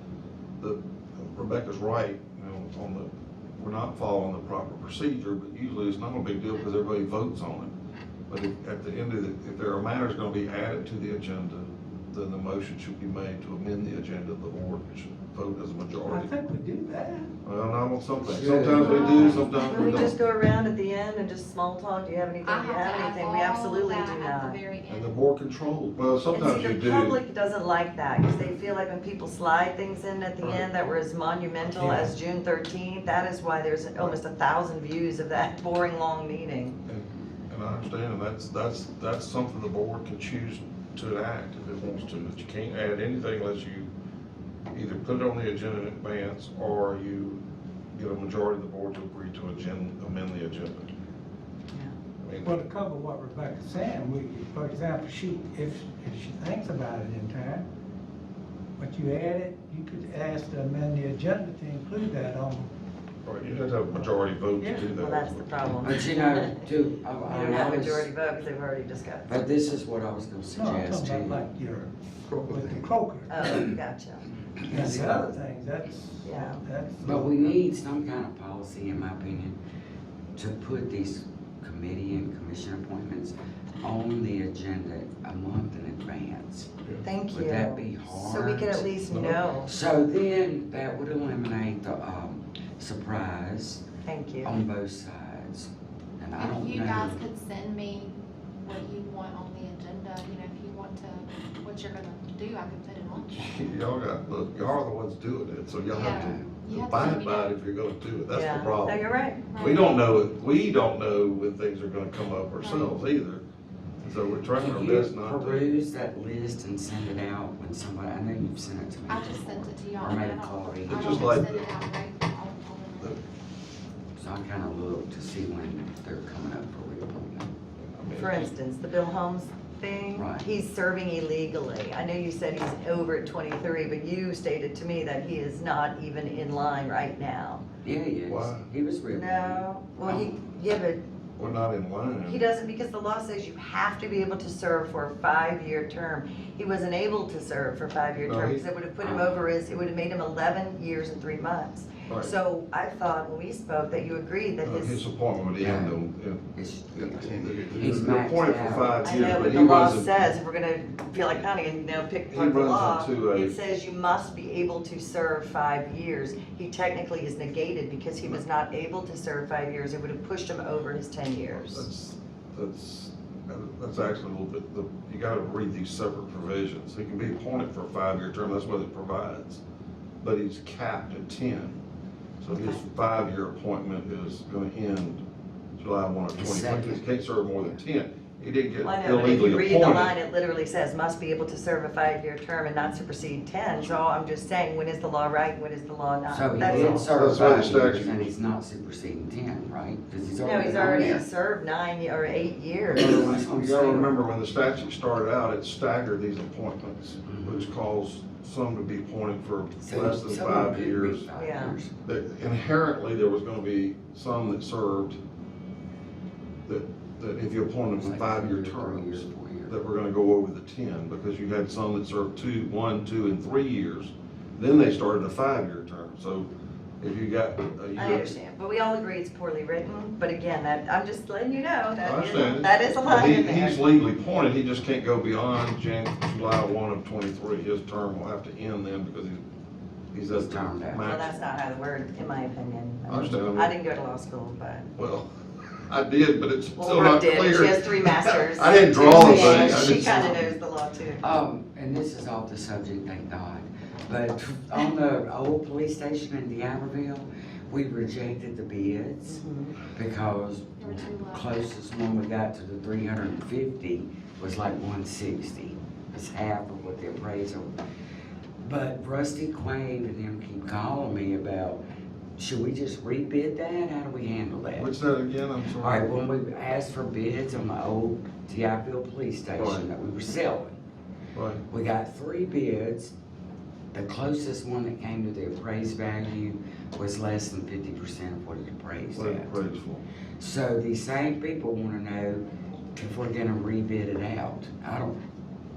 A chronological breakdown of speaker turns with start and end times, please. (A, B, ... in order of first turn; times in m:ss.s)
0:00.6-0:07.7 A
0:08.3-0:16.3 A
0:16.1-0:17.3 B
0:17.4-0:20.2 A
0:18.2-0:19.5 C
0:18.7-0:24.6 D
0:22.4-0:25.3 E
0:24.9-0:27.2 A
0:26.3-0:36.8 D
0:30.4-0:30.7 A
0:36.8-0:43.9 A
0:44.7-0:47.4 A
0:47.9-0:50.9 A
0:52.2-0:52.5 A
0:52.4-0:57.6 B
0:58.8-1:02.7 B
1:03.2-1:05.4 A
1:04.6-1:04.9 B
1:05.0-1:06.6 D
1:05.8-1:08.1 C
1:07.3-1:09.3 D
1:09.2-1:11.4 C
1:10.6-1:13.6 B
1:13.3-1:14.2 D
1:14.7-1:17.5 B
1:14.7-1:15.2 C
1:16.2-1:16.6 D
1:17.0-1:19.6 C
1:20.4-1:26.7 C
1:27.0-1:29.7 D
1:27.3-1:28.9 C
1:29.1-1:29.4 A
1:29.6-1:33.8 C
1:34.0-1:34.6 D
1:34.4-1:37.2 C
1:36.4-1:43.7 E
1:43.2-1:49.0 A
1:45.9-1:47.6 E
1:48.3-1:49.4 D
1:49.4-1:50.2 E
1:49.6-1:53.4 A
1:52.6-1:53.0 E
1:54.0-1:55.7 A
1:54.6-2:01.4 C
1:59.1-2:03.2 E
2:00.9-2:01.7 A
2:04.2-2:07.5 C
2:07.9-2:08.5 A
2:08.1-2:17.6 D
2:10.1-2:10.4 C
2:17.8-2:20.2 C
2:18.3-2:18.6 A
2:19.1-2:21.0 D
2:21.4-2:22.4 A
2:22.2-2:35.0 D
2:28.2-2:28.6 A
2:29.0-2:29.4 C
2:32.1-2:32.3 A
2:34.6-2:40.2 A
2:35.6-2:36.0 C
2:36.6-2:39.4 C
2:39.0-2:51.8 D
2:42.3-2:43.6 A
2:51.6-2:59.6 A
3:00.2-3:01.8 A
3:02.4-3:05.2 A
3:05.8-3:10.1 A
3:06.3-3:07.0 C
3:08.8-3:17.4 D
3:16.3-3:21.2 C
3:16.6-3:18.3 A
3:20.4-3:24.1 D
3:22.9-3:24.1 C
3:22.9-3:31.3 A
3:27.3-3:27.7 C
3:29.8-3:31.9 C
3:31.4-3:31.8 D
3:32.0-3:35.2 A
3:36.6-3:46.5 A
3:37.9-3:39.7 C
3:47.0-3:48.4 A
3:48.0-3:53.8 D
3:52.0-3:59.4 A
4:00.1-4:01.4 A
4:00.3-4:01.1 C
4:01.0-4:04.9 D
4:03.1-4:03.7 A
4:05.0-4:10.4 A
4:06.8-4:11.2 D
4:09.0-4:10.5 C
4:11.2-4:27.7 C
4:19.2-4:19.8 D
4:20.8-4:21.7 E
4:28.6-4:31.8 C
4:32.4-4:34.9 C
4:34.7-4:36.1 A
4:35.8-4:40.7 C
4:39.6-4:39.8 A
4:41.3-4:41.6 A
4:41.7-4:43.1 C
4:43.9-4:49.5 C
4:49.1-4:50.0 A
4:50.4-4:52.4 C
4:53.0-4:55.1 C